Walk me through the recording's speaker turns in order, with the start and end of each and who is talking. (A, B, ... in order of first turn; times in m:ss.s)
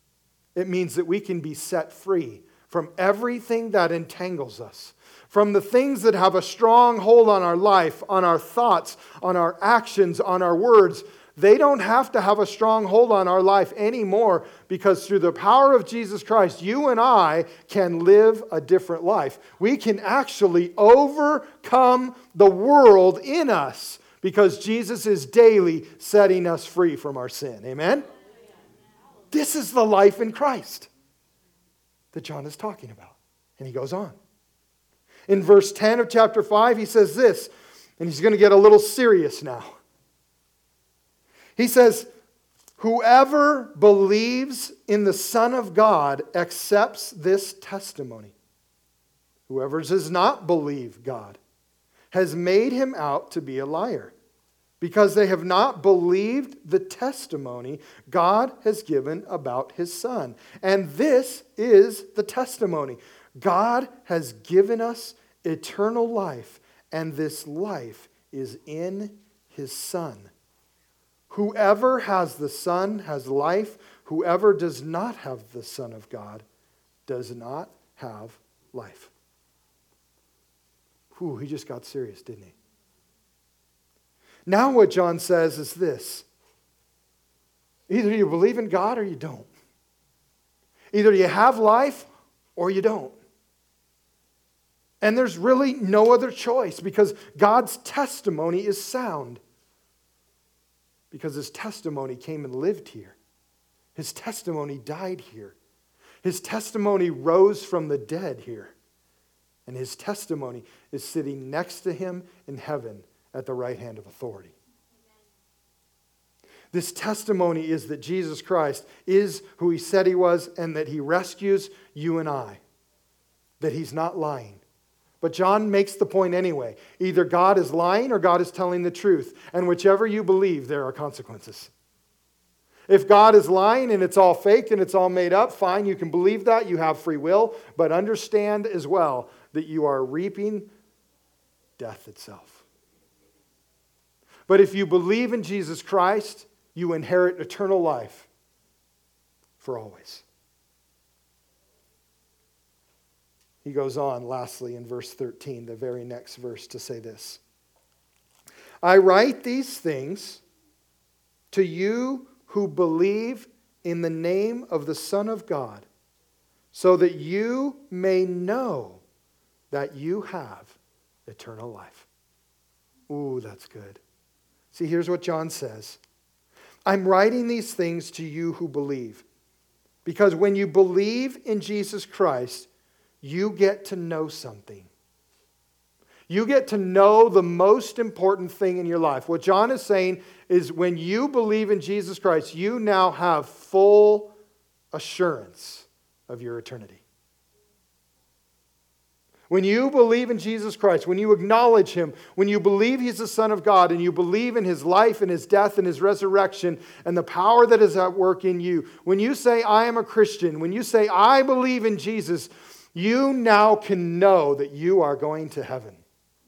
0:00.6-0:28.0 A
0:29.3-0:30.9 A
0:32.1-0:34.2 A
0:35.3-0:39.8 A
0:41.6-0:42.1 A
0:42.8-0:48.3 A
0:49.5-0:51.4 A
0:52.1-0:54.1 A
0:54.8-1:10.3 A
1:11.3-1:16.4 A
1:17.1-1:19.1 A
1:21.1-1:22.5 A
1:24.5-1:26.2 A
1:27.9-1:29.5 A
1:30.9-1:33.2 A
1:35.0-1:39.4 A
1:41.1-1:43.2 A
1:43.9-1:45.6 A
1:46.2-1:48.7 A
1:49.6-1:54.6 A
1:56.7-2:02.6 A
2:03.6-2:04.6 A
2:05.2-2:11.7 A
2:12.9-2:20.7 A
2:21.8-2:22.6 A
2:24.5-2:28.3 A
2:29.6-2:30.2 A
2:33.6-2:37.4 A
2:38.8-2:40.4 A
2:41.5-2:45.8 A
2:46.7-2:49.0 A
2:49.7-2:52.1 A
2:53.1-2:54.0 A
2:54.7-2:56.0 A
2:56.8-2:59.2 A
3:00.0-3:02.7 A
3:03.2-3:04.9 A
3:06.3-3:14.3 A
3:14.9-3:17.0 A
3:19.5-3:36.0 A